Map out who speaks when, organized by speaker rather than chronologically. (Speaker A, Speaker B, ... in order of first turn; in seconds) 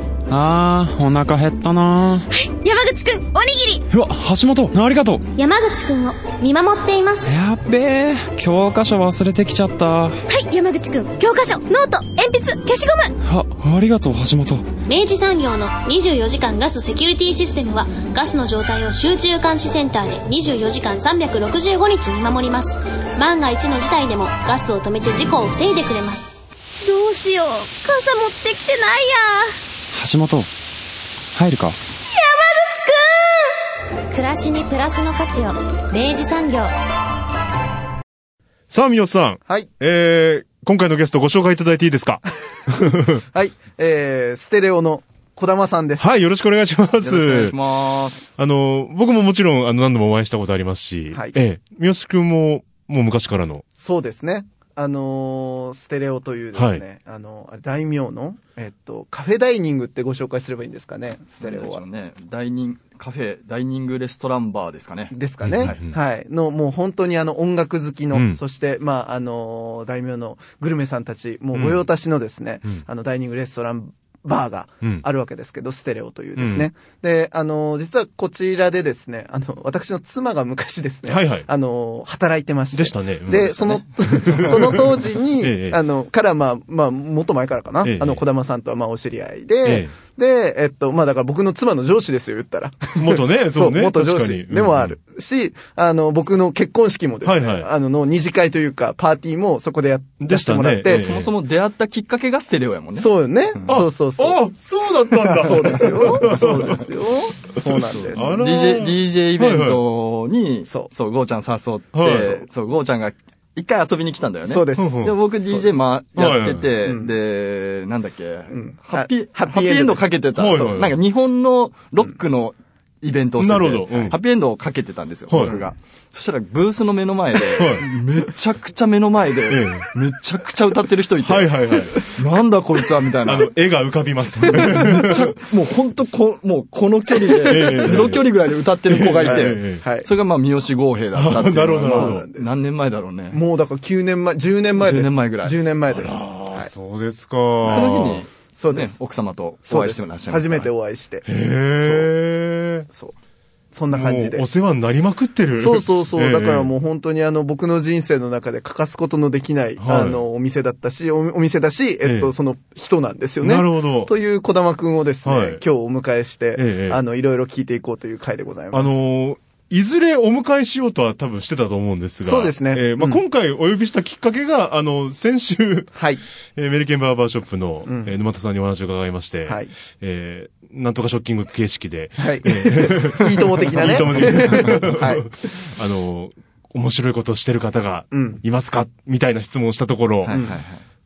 Speaker A: 0.3-2.3, 3.9-5.3, 7.2-10.2, 13.2-14.7, 29.9-30.5, 31.3-31.8
Speaker B: 2.3-3.8, 5.4-7.3, 10.3-13.1, 14.9-29.6, 32.1-33.6
Speaker C: 34.1-36.7
Speaker D: 38.7-43.2, 46.0-47.6, 48.4-53.6, 56.5-56.8, 65.4-66.0, 68.1-68.4, 71.5-71.9, 76.4-76.7, 81.1-81.5, 82.7-85.8, 87.8-88.2, 89.6-89.9, 93.0-95.0, 97.2-97.7, 100.2-101.3, 103.7-106.9, 107.6-109.8, 111.9-112.4, 114.8-115.1, 116.2-116.8, 120.3-121.0, 123.4-124.2, 125.3-125.6, 127.6-127.9, 129.5-129.9, 131.2-132.0, 133.2-135.3, 137.5-138.3, 138.8-139.8, 141.1-142.2, 145.9-148.3, 151.2-152.9, 153.9-156.7, 159.8-160.2, 162.0-162.3, 163.4-164.1, 165.2-165.6, 166.6-167.0, 168.7-175.9, 176.6-190.4
Speaker E: 43.1-46.1, 53.8-61.8, 65.1-101.1, 103.0-104.4, 105.2-108.3, 112.0-112.4, 114.5-115.7, 116.8-117.1, 118.5-120.0, 134.5-134.8, 137.6-138.1, 139.2-140.1, 141.3-142.6, 143.3-146.7, 148.5-149.0, 149.7-152.1, 153.7-154.5, 155.6-169.0, 172.2-173.2, 175.9-176.2, 177.9-178.1, 179.5-179.7, 182.2-185.6, 188.1-188.4, 190.3-190.6
Speaker F: 47.0-48.3, 61.4-65.8, 100.9-103.1, 108.0-133.5, 134.5-143.4, 144.8-145.6, 147.6-150.7, 190.2-190.8